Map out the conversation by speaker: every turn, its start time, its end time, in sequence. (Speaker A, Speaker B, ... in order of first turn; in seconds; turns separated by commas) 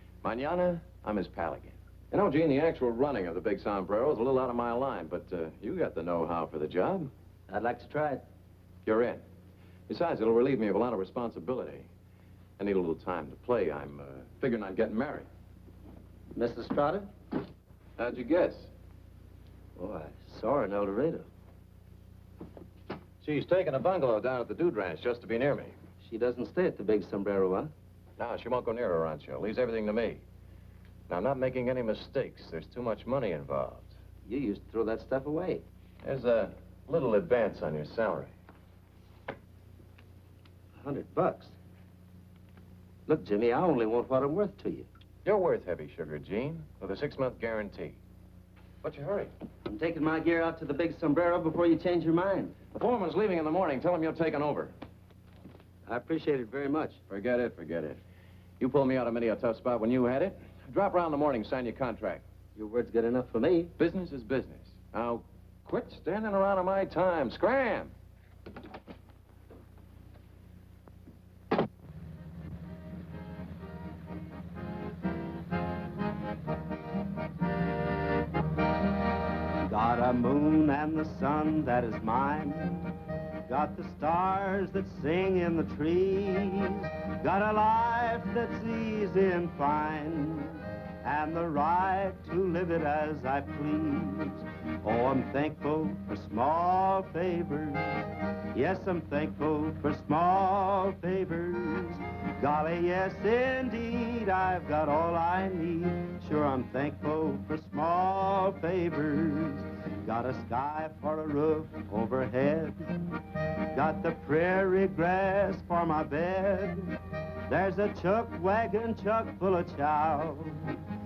Speaker A: 0.2-7.1, Speaker B: 7.5-8.2, Speaker A: 8.8-9.2, Speaker A: 9.9-11.9, Speaker A: 12.6-15.3, Speaker B: 16.4-17.1, Speaker A: 18.0-18.7, Speaker B: 19.8-21.3, Speaker A: 23.2-25.8, Speaker B: 26.0-27.7, Speaker A: 28.2-30.2, Speaker A: 31.1-33.9, Speaker B: 34.3-35.6, Speaker A: 36.0-38.3, Speaker B: 40.8-41.5, Speaker B: 43.1-44.9, Speaker A: 45.2-48.0, Speaker A: 48.8-49.3, Speaker B: 49.7-52.5, Speaker A: 52.8-54.7, Speaker B: 55.9-57.0, Speaker A: 57.1-58.0, Speaker A: 58.6-62.2, Speaker B: 62.6-63.7, Speaker A: 63.8-67.9, Speaker C: 79.7-82.9, Speaker C: 83.5-112.9, Speaker C: 113.7-116.9, Speaker C: 117.5-120.7